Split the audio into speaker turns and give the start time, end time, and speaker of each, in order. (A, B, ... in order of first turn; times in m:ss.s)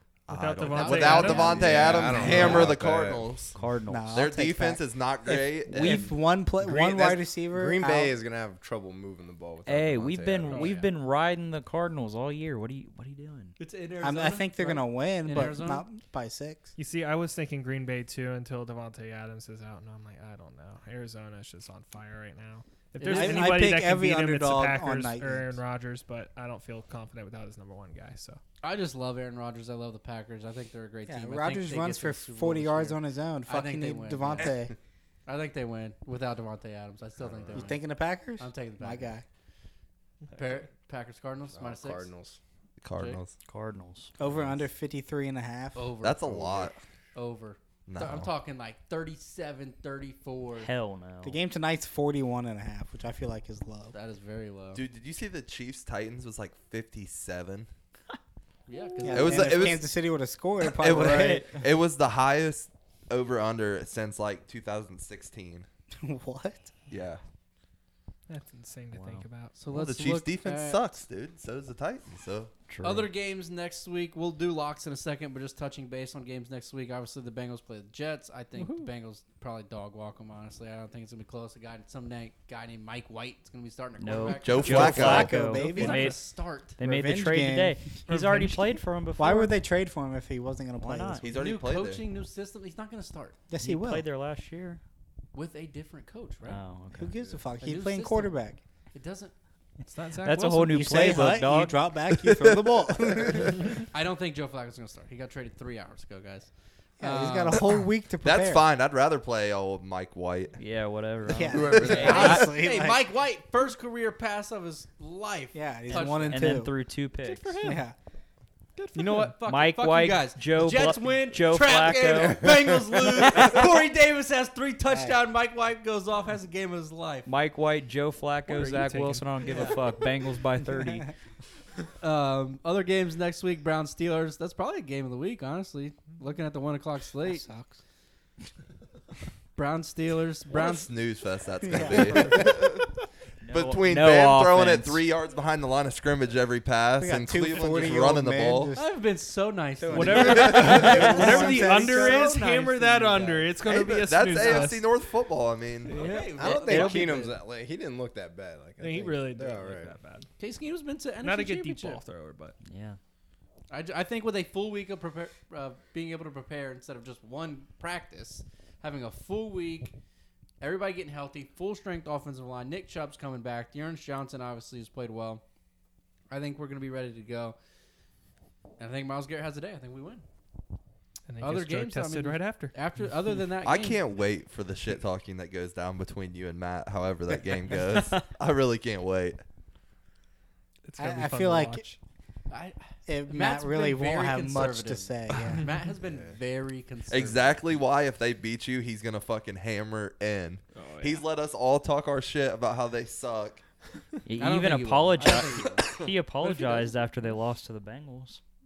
0:00.3-0:03.6 A
0:00.3-0:02.5 B
0:00.7-0:01.6 C
0:01.2-0:01.6 D
0:01.3-0:03.3 E
0:02.2-0:02.7 D
0:03.5-0:04.2 D
0:03.9-0:08.1 F
0:04.1-0:06.1 A
0:05.6-0:06.1 D
0:06.6-0:10.7 E
0:09.6-0:13.6 D
0:10.5-0:10.9 C
0:13.6-0:15.9 C
0:14.0-0:16.7 F
0:16.8-0:28.4 B
0:23.0-0:23.6 C
0:23.1-0:25.6 F
0:28.6-0:34.5 C
0:31.1-0:34.7 F
0:35.2-0:37.8 C
0:37.2-0:37.7 E
0:37.5-0:39.2 F
0:38.4-0:39.2 C
0:40.2-0:40.6 B
0:40.4-0:42.1 C
0:41.5-0:42.4 E
0:42.8-0:43.4 A
0:42.9-0:43.2 C
0:43.4-0:44.1 D
0:44.2-0:45.9 F
0:45.7-0:46.6 C
0:46.0-0:46.8 A
0:47.1-0:50.7 C
0:47.9-0:48.3 A
0:50.6-0:51.4 D
0:51.2-0:53.9 F
0:53.9-0:54.8 C
0:54.7-0:57.7 A
0:58.7-0:59.7 C
0:59.0-1:01.5 F
0:59.1-0:59.9 A
1:00.6-1:05.6 A
1:00.9-1:01.6 D
1:06.0-1:06.7 F
1:06.9-1:07.2 A
1:08.3-1:09.6 B
1:08.9-1:09.2 D
1:09.6-1:10.8 C
1:09.7-1:12.5 A
1:12.7-1:13.1 D
1:12.8-1:26.8 C
1:18.6-1:18.9 B
1:24.0-1:26.2 D
1:24.4-1:25.3 A
1:24.7-1:26.2 F
1:26.8-1:29.6 D
1:26.8-1:27.8 F
1:28.1-1:28.7 B
1:29.2-1:31.3 F
1:30.8-1:31.2 D
1:31.2-1:32.0 A
1:31.3-1:33.4 C
1:33.5-1:34.1 F
1:33.6-1:34.8 D
1:35.3-1:36.6 C
1:36.4-1:37.1 D
1:36.9-1:38.6 F
1:37.6-1:38.4 C
1:38.9-1:39.3 C
1:39.8-1:41.0 B
1:40.2-1:41.8 D
1:40.7-1:43.7 F
1:42.2-1:43.4 A
1:43.9-1:47.6 C
1:47.0-1:48.6 F
1:48.2-1:50.6 A
1:50.6-1:52.4 D
1:51.3-1:53.1 F
1:51.5-1:52.1 E
1:51.8-1:52.4 A
1:51.9-1:56.5 C
1:55.5-1:56.7 F
1:56.3-1:57.6 D
1:57.2-1:57.8 B
1:57.6-1:57.9 F
1:58.8-1:59.4 B
1:58.9-2:07.3 C
1:59.4-2:02.6 D
2:03.2-2:03.7 D
2:04.9-2:05.2 F
2:07.2-2:11.1 D
2:08.5-2:09.7 B
2:09.5-2:09.8 C
2:12.0-2:17.5 C
2:17.2-2:17.8 F
2:19.6-2:20.9 C
2:20.5-2:22.9 A
2:21.6-2:22.6 F
2:23.4-2:25.1 D
2:23.5-2:28.7 A
2:27.0-2:28.9 F
2:28.8-2:33.4 C
2:29.8-2:32.4 F
2:29.9-2:34.9 B
2:30.4-2:31.2 D
2:30.5-2:30.8 A
2:33.6-2:36.0 A
2:35.8-2:37.1 B
2:35.9-2:37.4 C
2:36.2-2:40.0 E
2:38.8-2:40.3 B
2:40.4-2:42.0 C
2:41.2-2:42.6 B
2:42.6-2:43.0 D
2:43.7-2:49.9 C
2:50.6-2:55.4 C
2:56.3-2:57.6 C
2:58.8-3:00.2 C
3:01.3-3:03.4 B
3:01.4-3:04.0 C
3:03.6-3:09.4 A
3:10.8-3:12.0 B
3:11.0-3:11.8 F
3:12.5-3:17.6 C
3:13.1-3:15.6 F
3:15.4-3:15.9 B
3:17.1-3:23.6 A
3:20.7-3:21.2 B
3:24.2-3:28.4 D
3:24.4-3:25.9 C
3:26.4-3:26.9 B